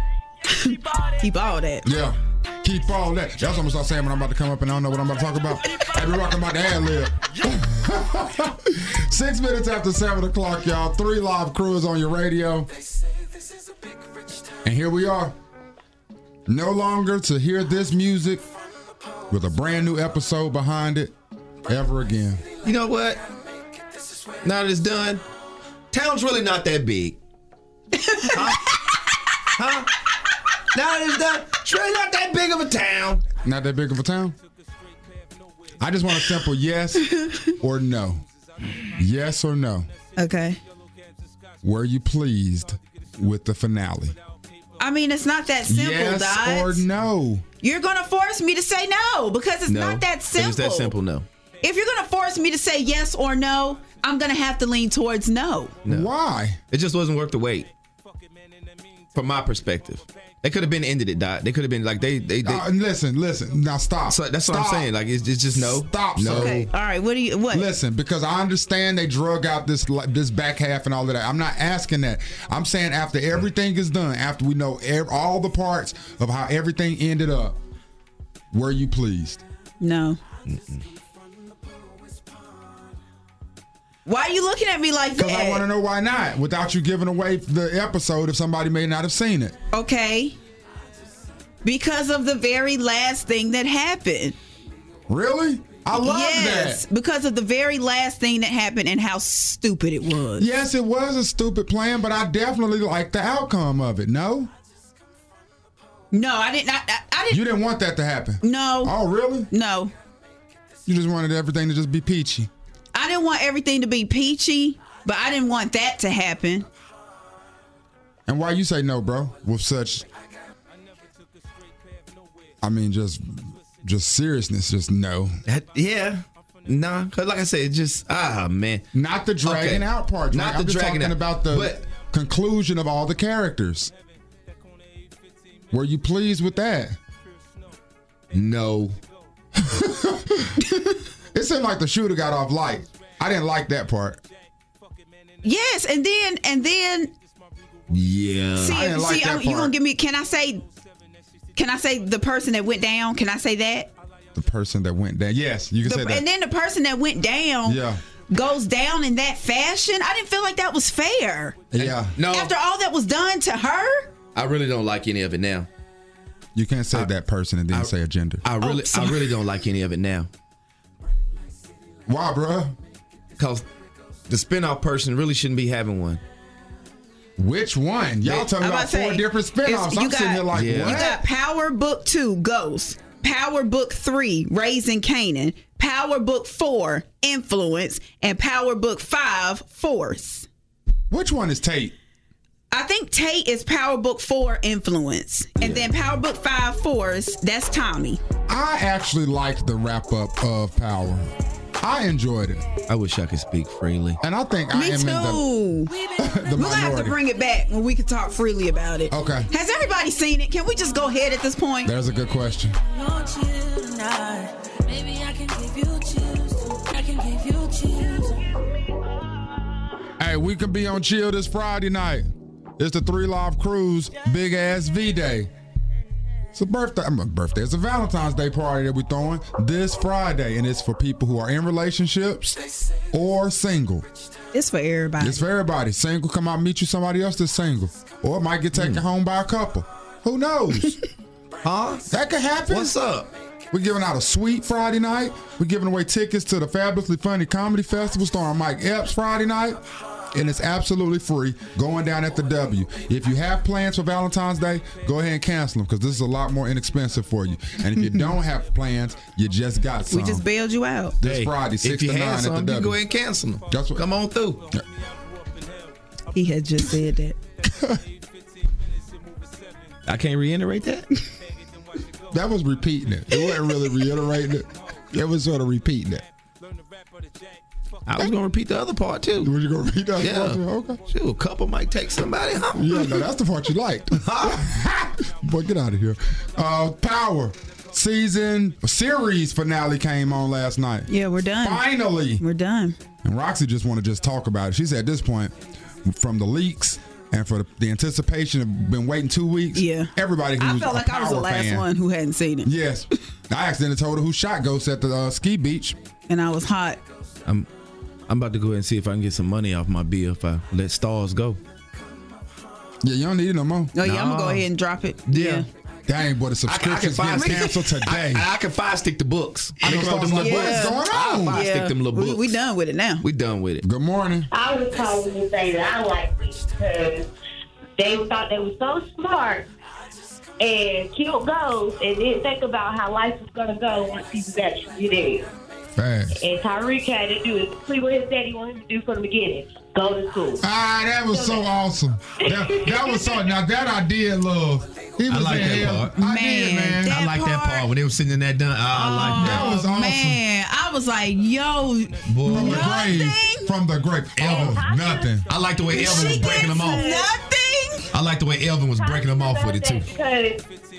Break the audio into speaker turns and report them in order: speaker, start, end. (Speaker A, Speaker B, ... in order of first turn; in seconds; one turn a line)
Speaker A: 0.5-1.9
Speaker B: 1.8-12.7
Speaker B: 14.7-15.3
Speaker B: 16.5-18.4
Speaker B: 19.3-21.1
Speaker B: 21.7-22.4
Speaker C: 22.6-23.2
Speaker C: 24.4-25.2
Speaker C: 25.9-27.2
Speaker C: 28.2-28.8
Speaker C: 29.5-29.9
Speaker C: 30.7-33.2
Speaker B: 33.4-34.4
Speaker B: 35.8-38.2
Speaker A: 37.1-37.5
Speaker B: 38.9-39.9
Speaker A: 40.2-40.6
Speaker B: 41.6-44.2
Speaker A: 44.8-46.9
Speaker B: 45.7-47.5
Speaker A: 47.6-50.9
Speaker C: 49.7-51.3
Speaker A: 51.6-55.8
Speaker C: 55.9-56.1
Speaker B: 55.9-56.6
Speaker C: 56.7-57.7
Speaker C: 59.1-62.6
Speaker B: 62.4-64.9
Speaker C: 64.1-66.7
Speaker B: 65.5-66.7
Speaker A: 66.3-67.7
Speaker B: 67.5-77.6
Speaker B: 78.5-79.4
Speaker A: 79.8-80.2
Speaker C: 80.5-80.8
Speaker A: 84.1-85.7
Speaker B: 85.2-89.6
Speaker A: 89.7-90.4
Speaker A: 91.6-94.4
Speaker B: 95.1-96.8
Speaker A: 96.0-100.5
Speaker B: 100.4-104.5
Speaker A: 106.1-107.5
Speaker B: 107.3-109.5
Speaker A: 108.4-108.9
Speaker A: 109.5-109.9
Speaker B: 110.9-112.5
Speaker A: 112.9-116.7
Speaker B: 118.3-120.1
Speaker B: 122.6-125.4
Speaker C: 125.5-128.8
Speaker B: 128.9-133.9
Speaker C: 129.4-131.8
Speaker B: 135.7-137.0
Speaker C: 138.3-139.0
Speaker B: 139.6-140.6
Speaker B: 141.3-144.2
Speaker A: 145.4-147.1
Speaker C: 147.9-148.8
Speaker A: 148.6-150.6
Speaker B: 148.6-149.7
Speaker A: 151.6-153.9
Speaker B: 154.3-156.2
Speaker A: 155.8-161.6
Speaker B: 157.7-158.0
Speaker B: 161.7-162.2
Speaker C: 161.8-162.5
Speaker A: 162.3-164.1
Speaker C: 164.3-165.7
Speaker B: 166.6-168.4
Speaker C: 168.4-170.3
Speaker A: 168.6-169.3
Speaker B: 172.1-172.8
Speaker C: 173.4-173.7
Speaker C: 174.3-176.2
Speaker B: 177.4-181.2
Speaker A: 178.6-190.5
Speaker C: 180.5-181.1
Speaker B: 191.1-191.9
Speaker A: 192.7-198.2
Speaker C: 195.6-195.9
Speaker B: 198.5-201.3
Speaker B: 201.8-202.7
Speaker C: 202.9-204.2
Speaker B: 204.2-205.4
Speaker A: 204.7-205.9
Speaker D: 205.9-206.5
Speaker B: 206.2-207.2
Speaker A: 206.6-211.9
Speaker B: 209.1-209.5
Speaker B: 211.8-212.8
Speaker D: 212.8-218.6
Speaker B: 220.2-225.5
Speaker B: 226.5-232.6
Speaker B: 233.1-234.1
Speaker A: 234.5-235.4
Speaker B: 235.2-241.0
Speaker C: 238.7-239.0
Speaker C: 241.6-242.1
Speaker B: 242.1-243.0
Speaker C: 242.7-243.3
Speaker B: 243.7-260.4
Speaker A: 260.1-261.2
Speaker B: 261.2-263.0
Speaker C: 261.2-264.6
Speaker B: 263.7-264.0
Speaker A: 266.3-267.4
Speaker B: 267.7-268.0
Speaker C: 270.1-271.1
Speaker B: 272.3-276.3
Speaker C: 278.1-279.5
Speaker B: 279.4-281.0
Speaker C: 280.2-283.0
Speaker B: 282.8-291.1
Speaker C: 284.2-284.6
Speaker A: 291.1-291.9
Speaker B: 291.6-292.4
Speaker A: 292.4-293.0
Speaker B: 293.2-301.9
Speaker A: 299.8-302.7
Speaker B: 302.6-306.0
Speaker A: 306.3-307.0
Speaker C: 308.3-311.6
Speaker B: 313.0-313.9
Speaker A: 313.9-315.7
Speaker C: 314.0-314.7
Speaker C: 315.3-315.7
Speaker B: 316.1-318.5
Speaker C: 316.7-322.5
Speaker B: 319.8-321.6
Speaker A: 320.2-323.2
Speaker C: 323.2-323.8
Speaker B: 323.8-324.5
Speaker E: 324.5-327.3
Speaker E: 328.0-329.7
Speaker E: 330.6-335.5
Speaker B: 336.0-336.4
Speaker E: 336.4-340.6
Speaker B: 340.6-347.2
Speaker E: 341.3-341.6
Speaker E: 342.5-343.4
Speaker C: 345.3-346.1
Speaker A: 346.2-347.9
Speaker C: 347.1-349.7
Speaker A: 348.9-353.7
Speaker B: 349.3-350.4
Speaker C: 352.3-353.1
Speaker B: 352.4-355.5
Speaker C: 354.4-354.9
Speaker E: 354.5-355.3
Speaker C: 355.5-357.2
Speaker A: 355.9-358.1
Speaker E: 356.0-357.3
Speaker C: 358.1-360.1
Speaker E: 359.0-360.6